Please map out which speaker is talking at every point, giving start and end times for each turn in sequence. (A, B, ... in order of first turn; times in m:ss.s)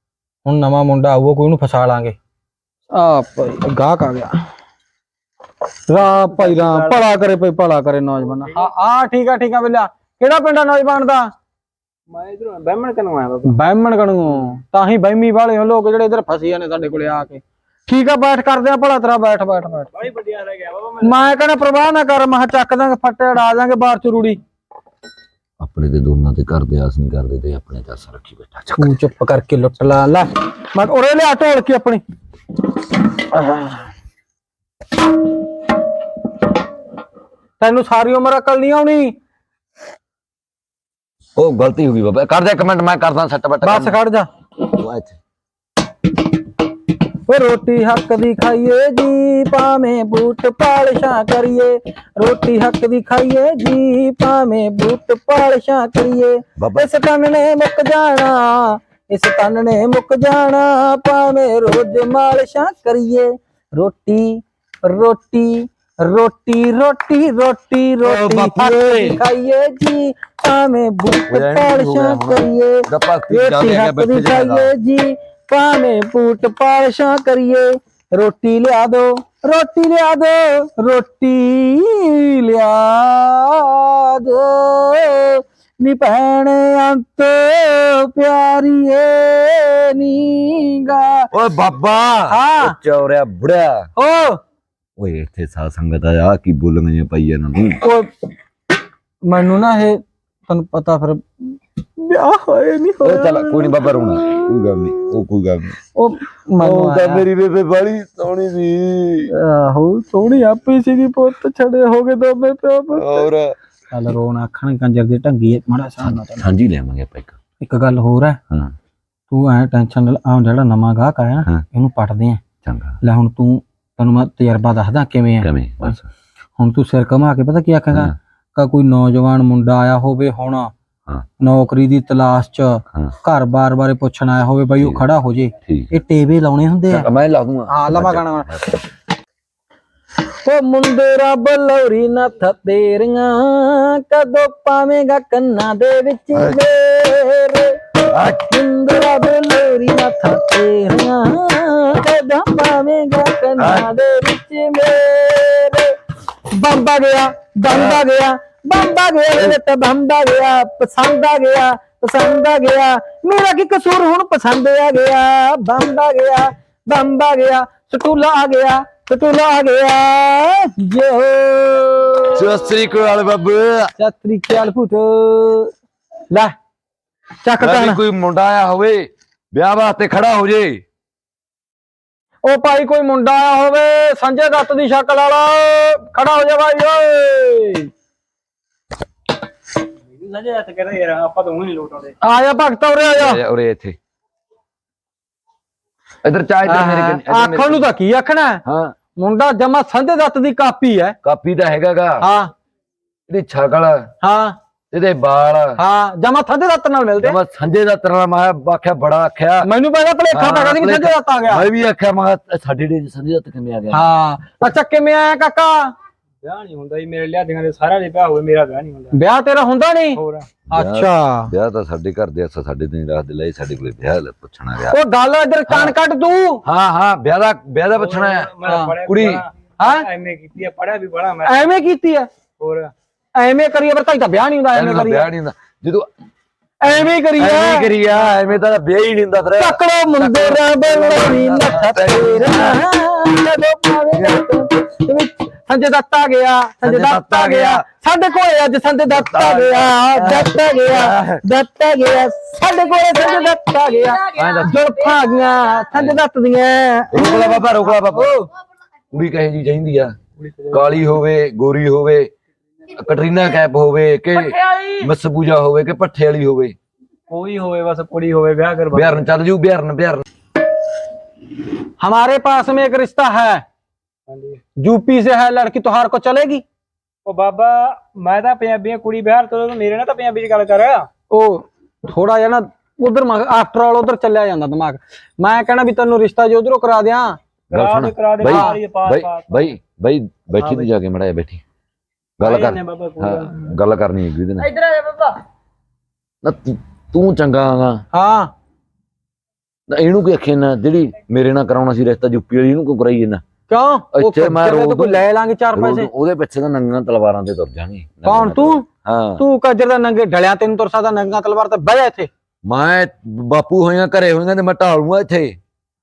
0:00.4-0:02.2 A
0:02.9-0:04.3 A
0:05.9-0:11.3 A
0:06.3-0:07.0 B
0:08.4-0:08.7 B
0:12.1-0:13.5 B
0:13.4-0:19.9 A
0:19.9-0:21.3 B
0:21.0-0:24.4 A
0:25.6-0:29.0 C
0:28.8-0:32.0 A
0:33.2-0:33.8 A
0:37.6-0:39.1 A
0:41.4-0:43.9 C
0:43.6-0:44.3 A
0:44.7-0:45.2 C
0:47.3-1:31.3 A
0:56.6-0:56.9 C
1:08.0-1:09.2 C
1:11.3-1:14.7 C
1:31.3-1:33.9 C
1:32.3-1:32.8 A
1:34.0-1:34.4 A
1:35.0-1:37.8 C
1:37.8-1:38.1 A
1:39.2-1:45.0 A
1:43.0-1:45.8 C
1:45.9-1:47.2 A
1:46.6-1:49.3 C
1:49.3-1:53.2 A
1:52.9-1:53.5 C
1:53.9-1:56.4 A
1:56.0-1:57.4 C
1:57.6-1:58.4 A
1:59.3-2:02.4 A
2:02.6-2:03.0 C
2:03.0-2:06.0 A
2:05.4-2:06.1 C
2:06.6-2:10.7 A
2:11.4-2:17.1 A
2:14.8-2:15.0 C
2:15.6-2:15.9 C
2:16.9-2:18.8 C
2:17.7-2:18.5 A
2:20.4-2:27.9 A
2:26.3-2:26.6 C
2:28.1-2:28.5 C
2:28.5-2:35.9 A
2:33.6-2:33.9 C
2:36.5-2:52.4 A
2:37.7-2:38.0 C
2:52.3-2:53.9 C
2:54.0-2:55.7 A
2:57.4-2:58.0 A
2:57.6-3:00.8 C
3:02.4-3:07.9 A
3:10.1-3:12.2 B
3:12.2-3:13.4 A
3:13.2-3:14.0 C
3:16.2-3:17.9 C
3:16.6-3:18.6 A
3:18.6-3:18.9 C
3:19.2-3:21.2 A
3:21.2-3:22.2 C
3:22.2-3:22.5 A
3:23.3-3:24.1 C
3:24.2-3:24.6 A
3:24.9-3:25.8 C
3:25.8-3:27.4 A
3:27.2-3:29.7 C
3:29.6-3:31.7 A
3:30.3-3:34.1 C
3:33.9-3:35.9 A
3:36.4-3:39.2 B
3:39.1-3:40.2 A
3:40.1-3:40.5 B
3:40.7-3:41.5 A
3:40.7-3:45.0 C
3:44.9-3:46.6 A
3:45.7-3:46.0 C
3:46.6-3:49.4 C
3:47.9-3:51.6 B
3:48.6-3:49.0 A
3:49.8-3:50.1 A
3:51.4-3:52.3 A
3:52.6-3:52.9 B
3:53.4-3:55.3 A
3:54.7-3:56.1 C
3:56.8-3:58.2 A
3:57.2-4:02.8 C
3:59.6-4:18.5 A
4:04.1-4:04.6 C
4:06.8-4:07.8 C
4:09.1-4:11.4 C
4:14.3-4:14.9 C
4:15.9-4:16.2 C
4:17.1-4:18.3 C
4:19.1-4:20.1 C
4:20.4-4:21.2 B
4:20.7-4:22.3 C
4:22.9-4:26.7 C
4:24.4-4:25.1 B
4:27.3-4:29.2 B
4:28.9-4:30.2 C
4:32.0-4:33.6 A
4:34.3-4:34.6 B
4:34.8-4:36.6 A
4:37.2-4:41.1 B
4:41.3-4:47.4 A
4:47.7-4:49.7 B
4:47.7-4:51.6 C
4:48.4-4:48.8 A
4:50.6-4:50.8 B
4:52.4-4:54.7 C
4:52.4-4:53.7 B
4:54.8-4:55.4 B
4:56.4-4:58.0 C
4:58.1-4:58.5 A
4:59.9-5:03.4 C
5:03.7-5:06.1 A
5:04.1-5:09.4 C
5:08.2-5:08.8 A
5:09.4-5:12.3 A
5:12.6-5:15.6 C